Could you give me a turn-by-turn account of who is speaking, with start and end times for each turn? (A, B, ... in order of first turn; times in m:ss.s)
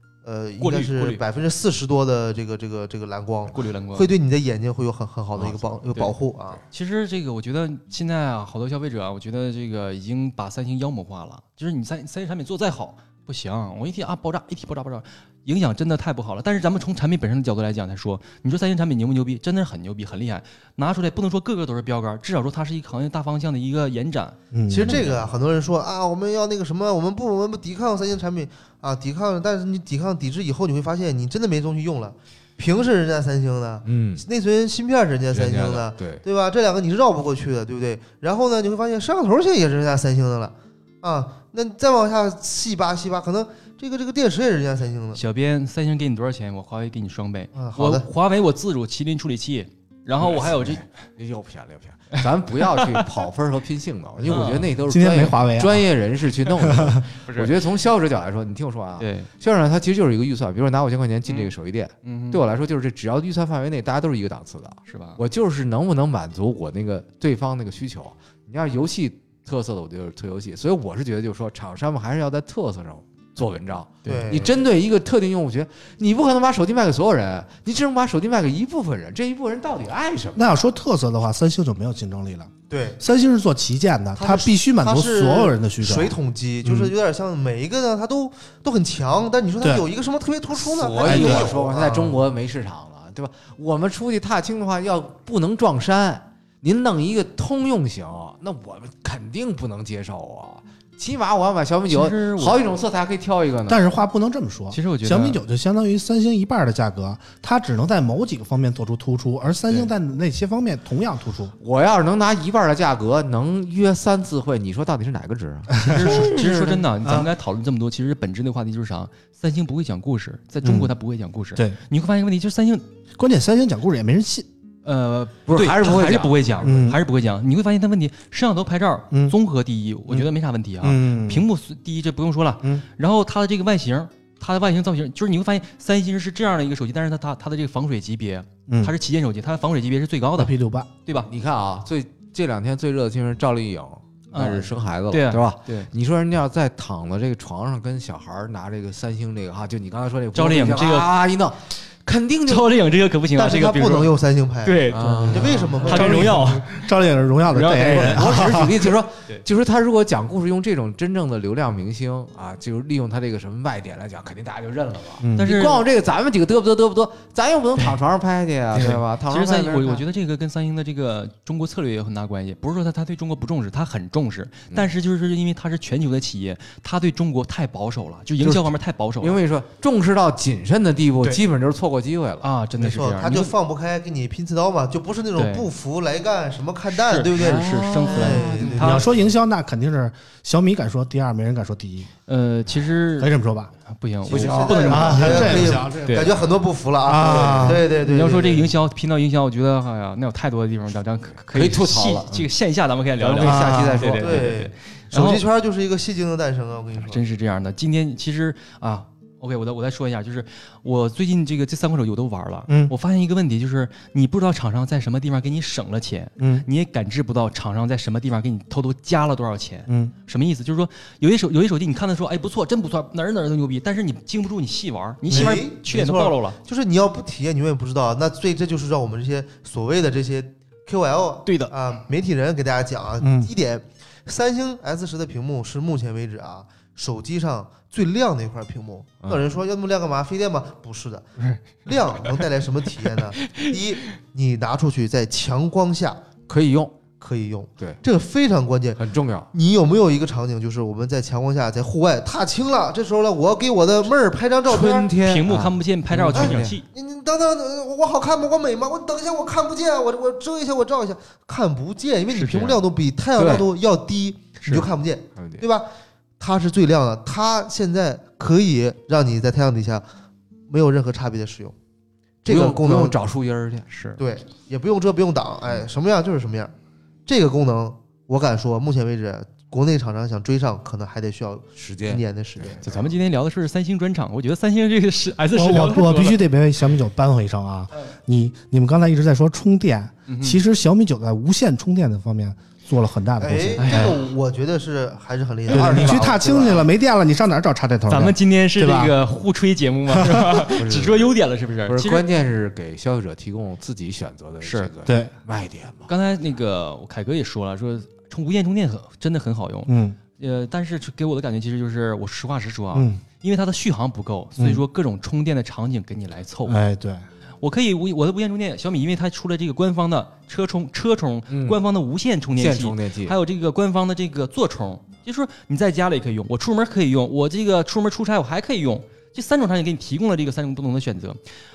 0:00.2-0:06.6 A
0:00.6-0:01.2 B
0:03.5-0:04.1 B
0:05.3-0:05.8 C
0:06.7-0:25.2 B
0:24.5-0:25.0 D
0:24.7-0:45.2 A
0:33.8-0:34.2 C
0:35.3-0:36.2 C
0:45.1-0:50.8 B
0:47.5-0:48.1 A
0:50.2-1:20.4 C
0:52.7-0:53.0 B
0:54.2-0:54.7 B
0:54.9-0:55.8 D
0:56.7-0:57.0 D
0:57.2-0:57.5 B
0:59.0-0:59.3 B
1:01.2-1:01.5 B
1:02.0-1:02.4 B
1:04.9-1:05.2 B
1:14.0-1:14.6 A
1:20.4-1:26.9 D
1:22.7-1:23.0 A
1:24.2-1:32.2 A
1:29.6-1:29.8 D
1:30.5-1:43.8 C
1:30.8-1:31.4 B
1:31.0-1:31.5 D
1:41.9-1:42.6 B
1:43.7-1:51.5 D
1:44.7-1:45.4 B
1:51.6-1:56.8 C
1:55.8-2:02.8 B
1:55.9-1:56.2 D
2:00.6-2:00.9 D
2:03.2-2:04.5 D
2:04.8-2:20.5 B
2:05.4-2:06.5 C
2:06.6-2:07.0 D
2:10.8-2:11.4 D
2:18.7-2:18.9 D
2:20.4-2:20.9 D
2:21.2-2:32.7 C
2:24.3-2:25.9 B
2:30.3-2:31.1 B
2:32.4-2:34.1 B
2:33.4-2:36.4 A
2:34.6-2:36.8 B
2:34.9-2:35.8 C
2:35.8-2:38.8 D
2:37.5-2:38.4 B
2:37.8-2:50.0 C
2:45.2-2:45.5 D
2:45.3-2:45.8 B
2:48.7-2:59.4 B
2:58.4-3:02.5 C
3:02.4-3:03.5 B
3:02.8-3:09.0 A
3:05.4-3:05.7 B
3:06.9-3:09.1 B
3:07.4-3:09.1 C
3:08.8-3:12.1 D
3:12.3-3:13.3 B
3:13.2-3:13.7 D
3:13.9-3:16.3 B
3:14.2-3:18.7 A
3:14.3-3:15.8 C
3:14.9-3:16.4 D
3:17.0-3:17.8 D
3:17.7-3:25.4 B
3:21.5-3:22.5 C
3:23.2-3:24.6 C
3:23.4-3:24.0 D
3:24.1-3:27.2 A
3:27.0-3:46.6 B
3:32.7-3:32.9 D
3:36.4-3:36.6 D
3:39.9-3:40.1 D
3:45.3-4:01.3 A
3:45.3-3:45.6 D
3:51.4-3:51.7 B
3:53.2-3:53.5 D
4:01.8-4:06.2 A
4:03.4-4:03.7 B
4:06.5-4:06.9 C
4:07.2-4:09.0 A
4:09.0-4:09.5 C
4:09.5-4:15.1 A
4:14.7-4:16.7 C
4:15.2-4:16.8 B
4:16.3-4:25.8 A
4:22.3-4:22.8 B
4:23.4-4:23.7 C
4:24.6-4:24.8 B
4:25.3-4:25.6 C
4:26.4-4:30.0 A
4:30.7-4:31.7 A
4:32.4-4:33.2 A
4:32.4-4:33.9 C
4:33.9-4:34.2 B
4:34.2-4:36.7 A
4:37.2-4:42.8 A
4:41.7-4:43.1 C
4:42.8-4:46.4 B
4:45.5-4:54.1 D
4:50.3-4:50.6 B
4:53.4-4:56.9 A
4:53.8-4:54.2 B
4:55.7-4:59.1 D
4:58.1-5:02.2 B
5:00.1-5:00.7 D
5:00.7-5:01.3 C
5:01.8-5:06.1 C
5:04.6-5:04.9 B
5:05.0-5:05.3 D
5:06.1-5:16.8 B
5:09.9-5:10.2 D
5:12.9-5:13.2 D
5:14.6-5:14.8 D
5:16.6-5:17.2 D
5:17.6-5:31.4 B
5:21.5-5:21.8 C
5:22.5-5:23.4 C